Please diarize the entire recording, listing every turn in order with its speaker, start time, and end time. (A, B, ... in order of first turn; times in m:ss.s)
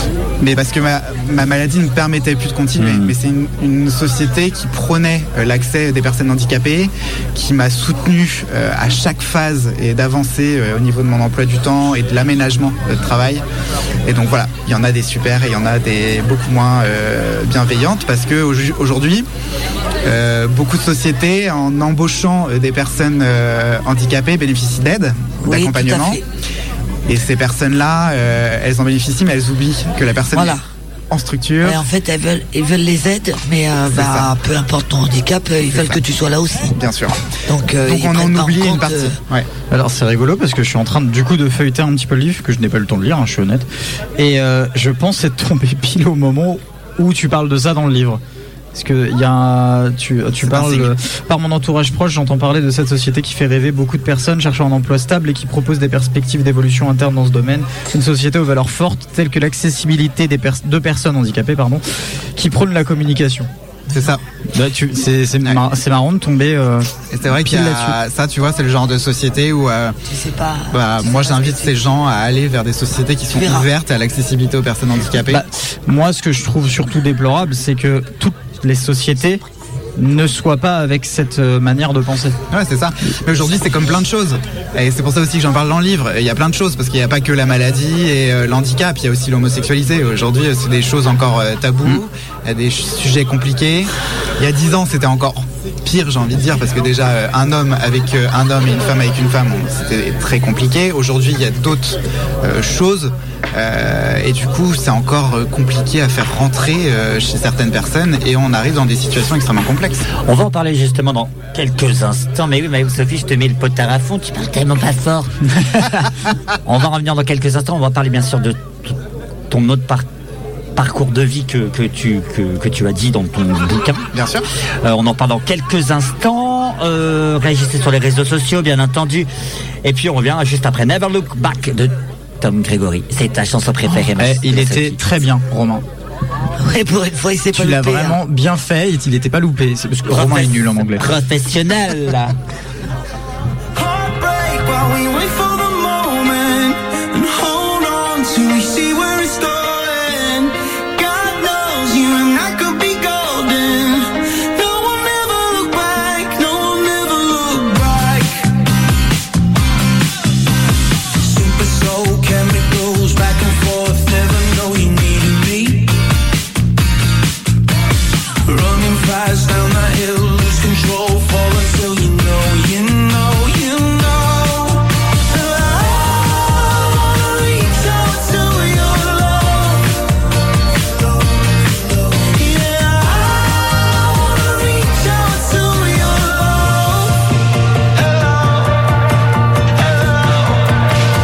0:00.4-0:13.4 A
0:14.1-0:19.3 A
0:20.0-0:26.2 A
0:25.4-0:26.2 B
0:27.1-0:31.8 A
0:30.3-0:30.6 B
0:31.6-0:36.8 B
0:33.9-0:34.3 A
0:35.7-0:36.0 A
0:36.8-0:37.2 A
0:37.5-0:39.2 B
0:37.8-0:39.5 A
0:39.7-0:43.7 C
0:44.2-0:48.2 C
0:48.7-1:01.8 C
0:50.4-0:50.9 A
1:02.4-1:03.5 C
1:03.9-1:04.2 A
1:04.5-1:08.0 C
1:07.1-1:10.0 A
1:10.1-1:11.7 B
1:10.7-1:15.4 A
1:13.4-1:13.7 B
1:15.3-1:19.4 C
1:20.0-1:22.4 C
1:22.5-1:50.0 A
1:50.2-1:55.9 D
1:56.6-1:59.0 D
1:59.5-2:00.1 D
2:00.8-2:04.1 D
2:04.1-2:04.5 A
2:04.8-2:09.3 D
2:09.8-2:15.1 D
2:14.0-2:15.8 C
2:16.6-2:18.2 B
2:17.5-2:21.0 C
2:20.1-2:22.4 D
2:23.8-2:38.5 E
2:41.2-2:46.0 E
2:48.5-3:00.0 E
3:00.9-3:07.2 E
3:07.9-3:08.9 E
3:09.8-3:10.7 E